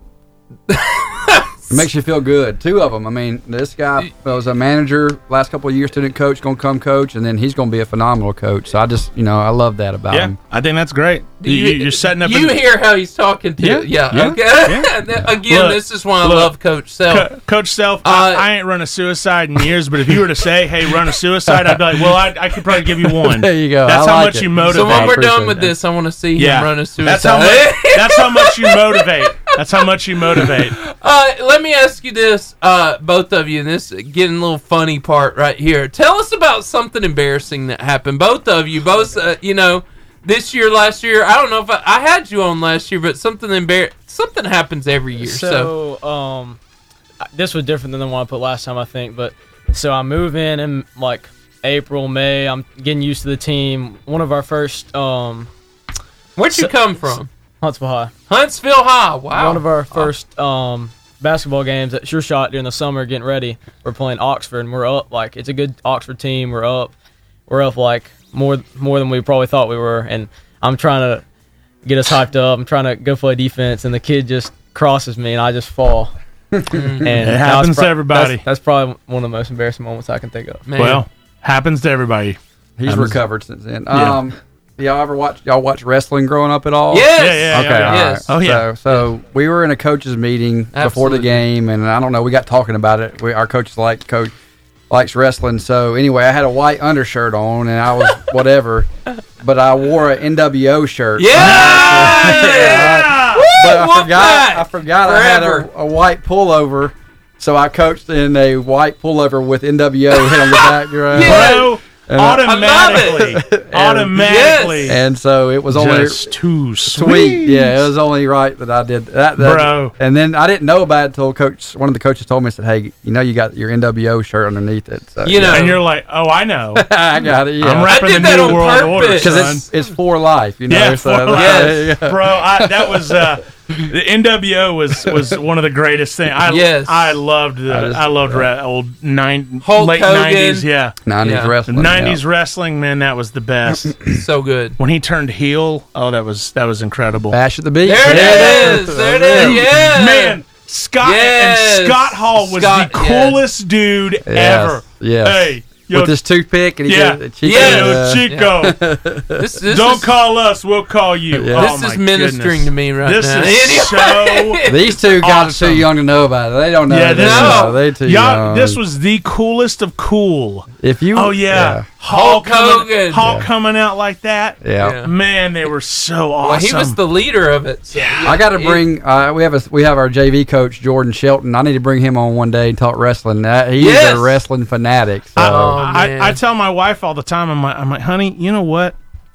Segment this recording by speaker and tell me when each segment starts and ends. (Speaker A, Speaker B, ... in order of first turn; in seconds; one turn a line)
Speaker A: 0.7-1.9
Speaker B: 1.7-10.4
Speaker C: 10.1-12.6
Speaker A: 11.4-17.3
Speaker C: 13.6-16.5
Speaker C: 17.1-25.2
Speaker A: 18.0-18.4
Speaker B: 23.1-25.7
Speaker A: 24.6-29.5
Speaker C: 26.4-30.8
Speaker A: 30.3-45.7
Speaker D: 45.2-46.6
Speaker D: 47.3-55.5
Speaker A: 56.4-57.3
Speaker D: 57.6-58.1
Speaker A: 58.3-60.1
Speaker D: 59.3-66.9
Speaker D: 67.5-71.2
Speaker D: 71.8-76.1
Speaker B: 76.5-76.8
Speaker A: 76.7-77.1
Speaker D: 77.0-80.7
Speaker C: 77.2-78.4
Speaker A: 80.7-81.0
Speaker C: 80.8-83.2
Speaker B: 82.8-94.3
Speaker C: 83.9-84.2
Speaker A: 86.9-88.3
Speaker C: 87.2-88.7
Speaker A: 90.7-91.3
Speaker B: 94.9-98.9
Speaker B: 99.4-116.3
Speaker A: 101.2-105.7
Speaker C: 101.3-103.5
Speaker A: 110.2-111.7
Speaker C: 111.2-115.0
Speaker A: 112.4-113.4
Speaker A: 114.2-115.0
Speaker C: 115.7-117.9
Speaker B: 116.8-125.7
Speaker C: 119.4-119.9
Speaker A: 125.2-125.8
Speaker C: 125.4-126.9
Speaker B: 126.7-128.0
Speaker C: 127.6-129.6
Speaker A: 127.8-129.6
Speaker B: 129.2-133.2
Speaker C: 130.7-144.0
Speaker A: 131.3-131.8
Speaker A: 136.4-137.2
Speaker B: 137.7-138.4
Speaker A: 139.6-140.7
Speaker B: 141.0-142.2
Speaker A: 141.2-141.5
Speaker A: 144.1-144.8
Speaker C: 144.8-147.4
Speaker B: 147.3-149.8
Speaker A: 147.8-150.4
Speaker C: 148.0-156.2
Speaker A: 151.0-153.4
Speaker B: 154.2-159.4
Speaker C: 156.8-158.8
Speaker A: 157.4-158.5
Speaker A: 159.3-160.1
Speaker C: 159.7-165.9
Speaker B: 161.3-161.7
Speaker A: 161.5-165.0
Speaker B: 164.6-168.8
Speaker C: 166.9-177.0
Speaker A: 167.2-167.8
Speaker B: 170.8-171.9
Speaker A: 172.1-173.3
Speaker B: 173.2-173.5
Speaker B: 174.6-175.0
Speaker A: 174.8-175.1
Speaker A: 176.4-178.8
Speaker C: 177.9-178.3
Speaker B: 178.2-185.8
Speaker A: 183.8-184.4
Speaker C: 185.3-188.9
Speaker A: 185.4-186.4